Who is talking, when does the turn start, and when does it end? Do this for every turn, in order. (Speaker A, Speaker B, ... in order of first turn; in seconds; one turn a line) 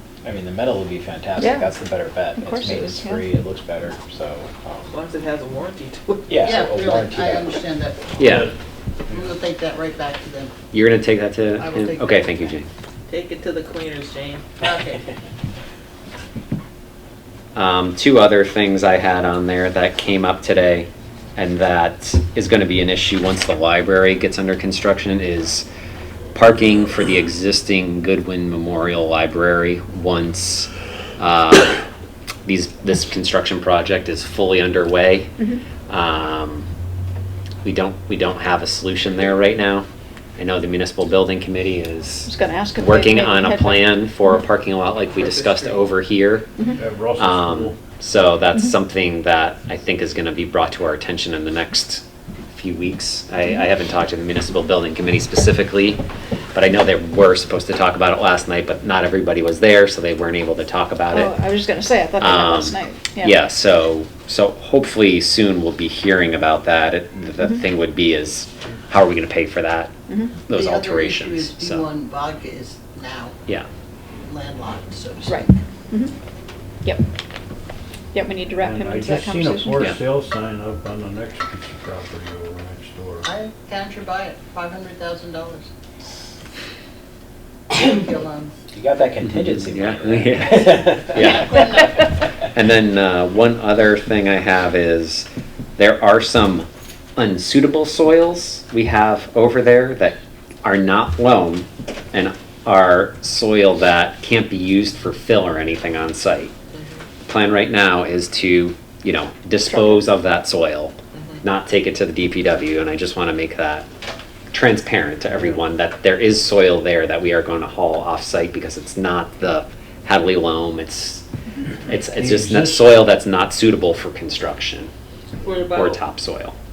Speaker A: 0.2-4.9
Speaker B: 1.4-1.7
Speaker B: 2.3-3.3
Speaker C: 4.9-6.4
Speaker A: 6.3-7.6
Speaker D: 6.4-8.1
Speaker E: 8.2-8.5
Speaker F: 8.2-8.5
Speaker F: 9.1-9.3
Speaker D: 9.1-10.5
Speaker E: 10.7-12.7
Speaker D: 11.6-12.5
Speaker C: 13.1-14.5
Speaker D: 14.6-15.0
Speaker E: 17.5-25.7
Speaker E: 26.3-31.8
Speaker E: 32.4-36.7
Speaker E: 37.6-61.4
Speaker B: 42.2-43.9
Speaker C: 45.1-45.9
Speaker F: 46.8-47.8
Speaker B: 61.1-63.3
Speaker E: 62.2-69.9
Speaker B: 70.1-70.3
Speaker E: 70.5-71.9
Speaker D: 70.5-73.3
Speaker D: 74.2-75.5
Speaker B: 75.3-76.1
Speaker B: 78.1-79.8
Speaker F: 78.6-83.3
Speaker D: 83.2-85.7
Speaker D: 87.7-88.5
Speaker A: 88.7-91.8
Speaker E: 89.2-106.5
Speaker D: 91.1-92.0
Speaker C: 106.7-107.0
Speaker E: 107.2-113.9
Speaker B: 109.7-110.0
Speaker C: 111.1-111.4
Speaker E: 114.5-121.2
Speaker E: 121.8-124.9
Speaker F: 122.2-123.0
Speaker C: 125.4-126.0
Speaker E: 125.7-126.5